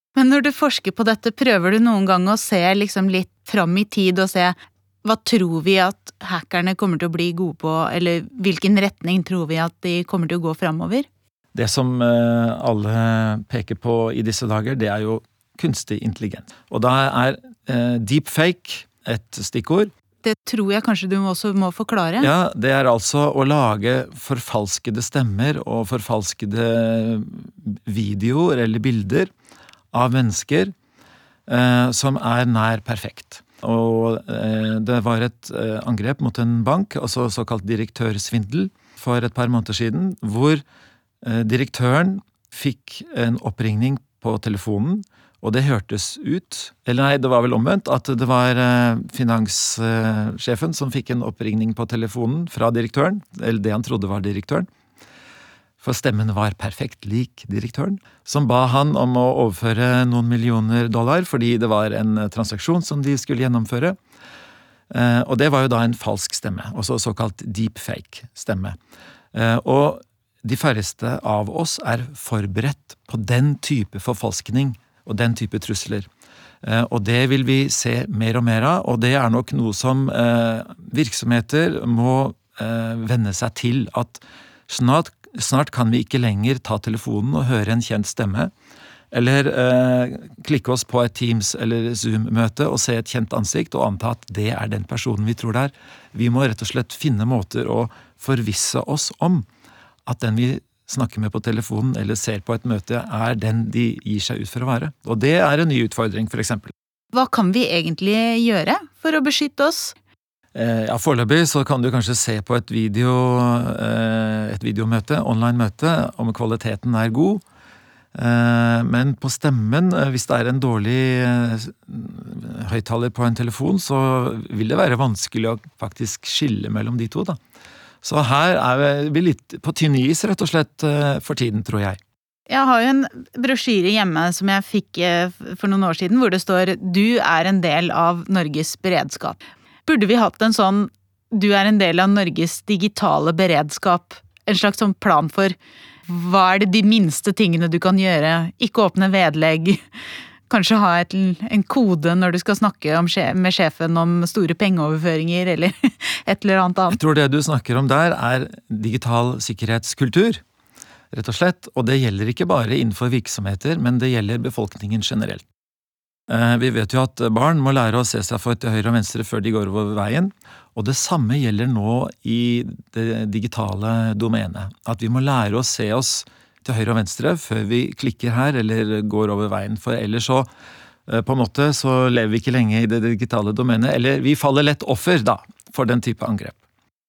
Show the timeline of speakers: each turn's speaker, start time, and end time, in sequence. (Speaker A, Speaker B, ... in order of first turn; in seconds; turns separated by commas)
Speaker A: 0.1-11.1, Speaker B: 11.6-19.9, Speaker A: 20.2-22.3, Speaker B: 22.2-29.3, Speaker B: 29.9-30.7, Speaker B: 31.5-40.6, Speaker B: 41.2-54.7, Speaker B: 55.8-64.0, Speaker B: 64.9-68.8, Speaker B: 69.3-76.1, Speaker B: 76.6-88.5, Speaker B: 89.1-99.5, Speaker B: 100.1-106.7, Speaker A: 107.1-109.9, Speaker B: 110.5-117.4, Speaker B: 118.1-127.4, Speaker B: 128.0-132.0, Speaker A: 132.5-145.6, Speaker A: 146.1-149.8, Speaker A: 150.5-157.0, Speaker B: 156.9-160.4, Speaker B: 161.1-165.4, Speaker B: 166.3-180.5, Speaker B: 181.1-186.6